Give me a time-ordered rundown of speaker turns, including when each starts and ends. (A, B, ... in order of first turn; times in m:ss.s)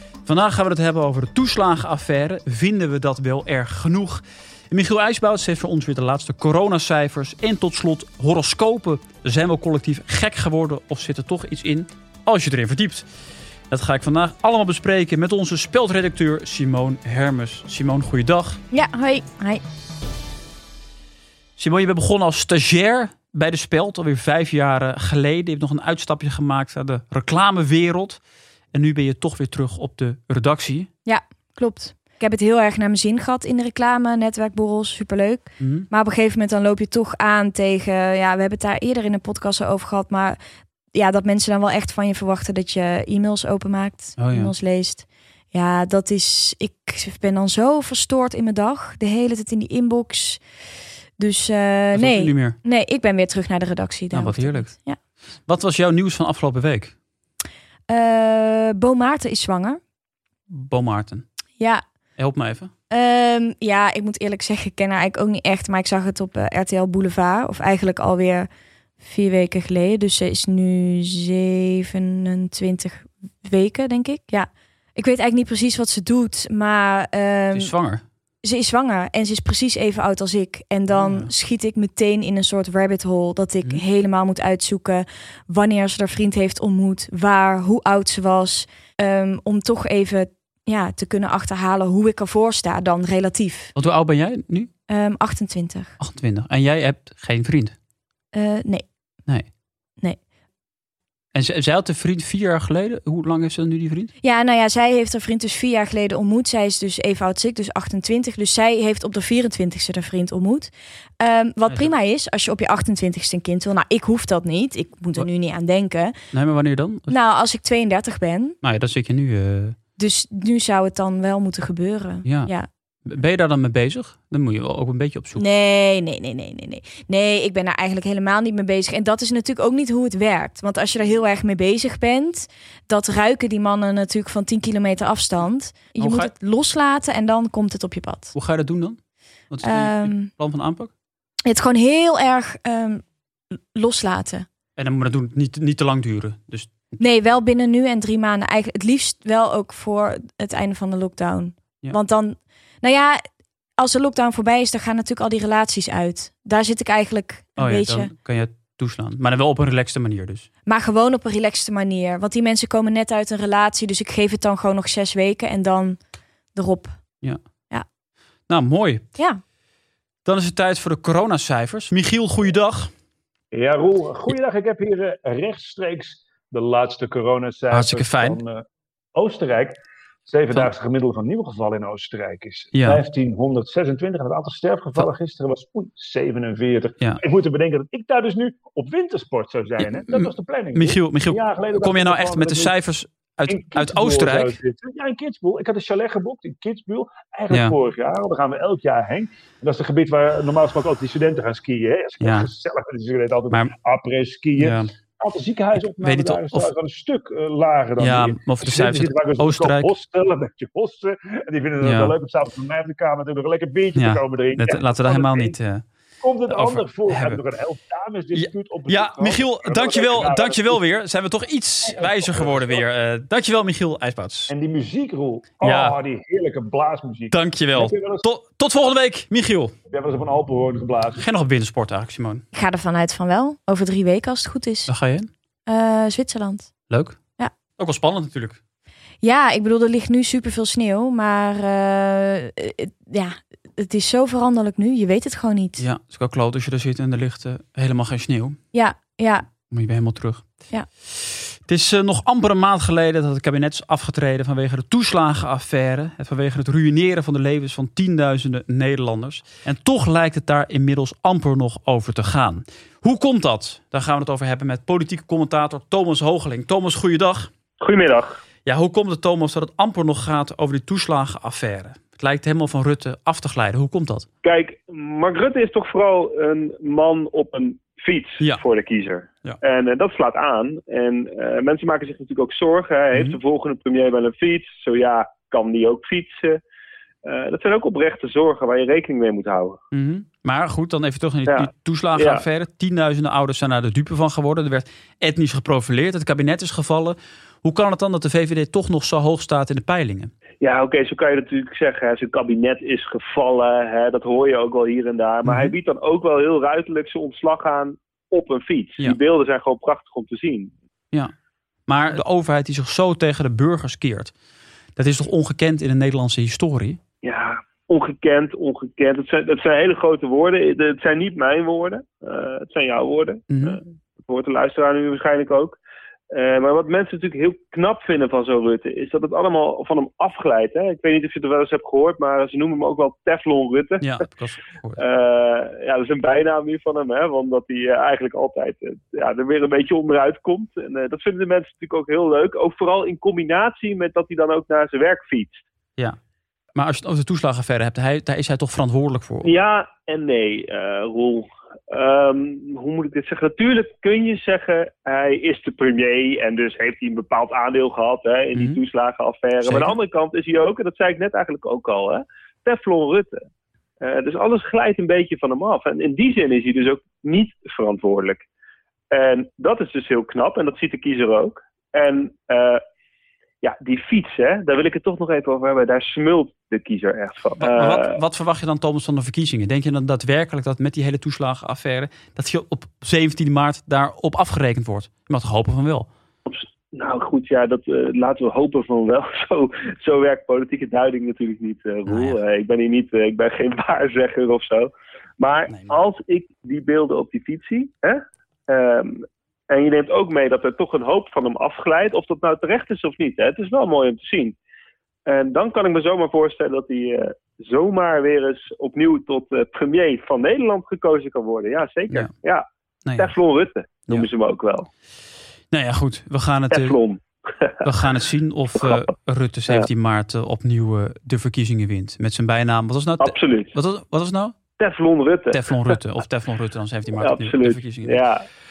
0:00.3-0:13.0 A
0:13.7-0:18.6 A
0:18.7-0:19.6 B
0:21.6-0:28.2 A
0:28.7-0:30.9 A
0:31.0-0:40.4 B
0:35.6-0:35.9 A
0:40.9-0:50.4 B
0:44.2-0:44.5 A
0:51.2-0:55.0 B
0:51.9-0:52.6 A
0:54.1-0:54.7 A
0:55.5-0:56.9 A
0:57.9-0:59.8 B
1:00.5-1:01.2 A
1:02.2-1:02.7 A
1:02.9-1:08.5 B
1:09.0-1:17.7 B
1:17.5-1:18.0 A
1:18.4-1:33.7 B
1:20.9-1:21.3 A
1:33.8-1:34.7 A
1:34.9-1:35.9 B
1:36.0-1:37.7 A
1:38.3-1:38.9 B
1:41.3-1:44.1 A
1:44.2-1:56.2 B
1:56.3-1:57.2 A
1:57.1-1:58.6 B
1:58.6-1:59.8 A
2:00.0-2:02.7 B
2:02.2-2:02.5 A
2:03.1-2:05.4 A
2:05.4-2:18.3 B
2:16.0-2:16.3 A
2:18.3-2:19.0 A
2:19.5-2:20.9 A
2:19.6-2:20.3 B
2:21.4-2:23.0 B
2:23.5-2:24.5 B
2:24.8-2:26.7 A
2:27.0-2:33.2 B
2:33.8-2:38.1 B
2:37.6-2:40.5 A
2:40.7-2:46.0 B
2:46.5-2:47.0 B
2:48.5-2:49.1 A
2:50.2-2:52.9 A
2:53.5-2:58.6 C
2:57.7-2:58.4 A
2:59.2-3:12.8 C
3:02.7-3:03.0 A
3:09.8-3:14.6 A
3:13.5-3:35.6 C
3:17.5-3:17.8 A
3:22.2-3:22.5 A
3:24.6-3:24.9 A
3:25.9-3:26.7 A
3:28.0-3:29.9 A
3:31.8-3:32.1 A
3:34.0-3:35.8 A
3:36.2-3:40.9 C
3:36.5-3:37.4 A
3:38.3-3:44.5 A
3:42.0-3:42.8 C
3:44.5-3:48.2 C
3:45.6-3:46.0 A
3:47.3-3:49.7 A
3:49.9-3:51.2 C
3:51.2-3:52.4 A
3:52.5-3:54.9 B
3:54.9-3:55.3 A
3:55.7-3:56.7 B
3:56.9-3:57.2 A
3:57.8-3:58.6 A
3:59.2-4:05.8 B
4:05.8-4:08.6 A
4:08.7-4:09.5 B
4:09.7-4:10.4 A
4:11.7-4:27.5 A
4:27.8-4:28.4 D
4:28.6-4:34.3 A
4:34.4-4:46.6 D
4:43.1-4:43.4 A
4:47.2-4:49.8 D
4:49.9-5:00.3 A
4:51.5-4:52.4 D
5:00.6-5:10.7 D
5:05.4-5:05.8 A
5:11.9-5:14.3 A
5:15.0-5:17.0 A
5:17.2-5:25.8 D
5:23.5-5:23.8 A
5:26.3-5:34.2 D
5:34.0-5:35.0 A
5:35.0-5:45.6 D
5:46.8-5:49.5 A
5:49.4-6:03.4 D
5:58.6-5:58.8 A
5:59.6-6:00.0 A
6:04.0-6:08.4 D
6:09.1-6:12.8 D
6:13.6-6:18.2 D
6:17.6-6:26.1 A
6:26.5-6:44.6 D
6:32.1-6:32.4 A
6:35.7-6:36.0 A
6:45.3-6:52.7 D
6:53.1-6:53.3 A
6:53.2-6:54.9 D
6:55.7-6:57.0 A
6:56.7-6:57.8 D
6:57.8-7:04.6 A
7:03.2-7:03.7 D
7:04.8-7:05.9 D
7:05.5-7:08.2 A
7:07.2-7:08.4 D